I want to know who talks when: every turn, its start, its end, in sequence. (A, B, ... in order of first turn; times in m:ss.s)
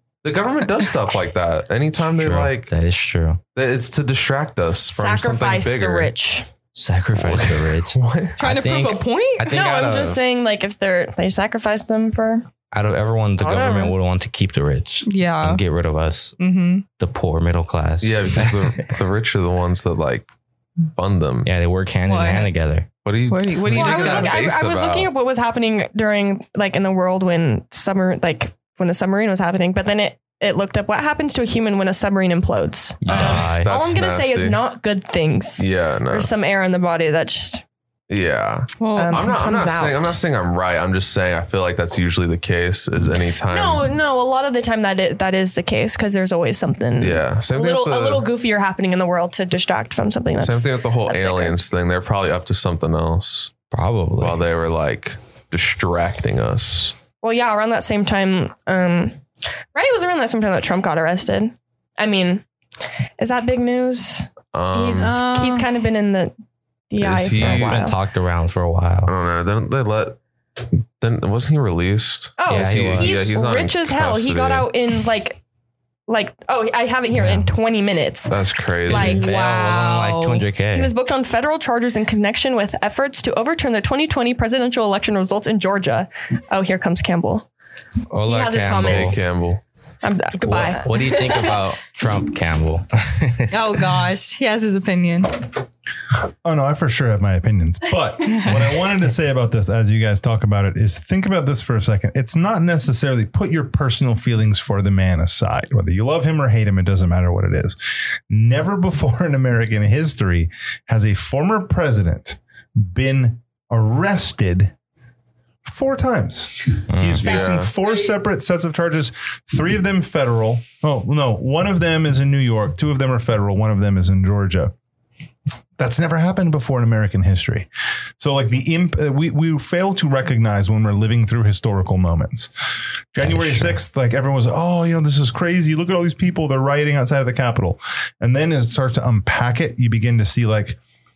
0:00.2-0:02.7 A
0:02.0-0:03.4 B
0:03.5-0:06.1 A
0:04.9-0:06.5 C
0:06.7-0:10.2 B
0:07.1-0:08.4 A
0:08.4-0:09.5 D
0:09.4-0:12.5 C
0:12.7-0:16.4 B
0:13.4-0:13.9 C
0:15.0-0:15.6 D
0:16.4-0:16.8 D
0:17.0-0:18.9 B
0:18.0-0:20.3 A
0:20.9-0:21.5 A
0:21.4-0:22.9 B
0:22.0-0:22.5 D
0:23.0-0:25.1 A
0:23.3-0:24.4 D
0:23.7-0:37.6 C
0:33.0-0:33.7 B
0:33.1-0:34.6 A
0:35.6-0:36.3 A
0:38.1-0:43.9 A
0:38.8-0:39.3 D
0:38.9-0:40.2 C
0:43.5-0:51.6 C
0:47.0-0:48.3 A
0:50.4-0:53.5 A
0:53.7-0:54.4 B
0:54.2-0:57.0 A
0:57.2-0:59.2 C
0:59.7-1:02.4 C
1:03.2-1:06.3 C
1:04.5-1:05.2 A
1:05.0-1:05.7 D
1:06.9-1:08.0 C
1:07.0-1:07.9 A
1:07.4-1:09.1 B
1:09.0-1:10.2 A
1:11.0-1:14.7 A
1:12.4-1:15.4 C
1:12.5-1:13.2 B
1:16.1-1:19.3 C
1:17.1-1:17.5 B
1:18.2-1:19.2 A
1:18.9-1:20.9 B
1:19.2-1:20.4 D
1:20.7-1:27.5 C
1:28.1-1:29.2 B
1:28.2-1:29.3 C
1:28.8-1:29.6 A
1:30.0-1:31.6 C
1:30.4-1:33.7 B
1:33.5-1:35.4 D
1:36.4-1:54.7 E
1:55.6-2:04.7 E
1:56.9-1:57.4 B
1:57.2-1:57.7 A
2:05.8-2:07.7 E
2:08.2-2:12.5 E
2:13.1-2:20.8 E
2:13.2-2:13.8 B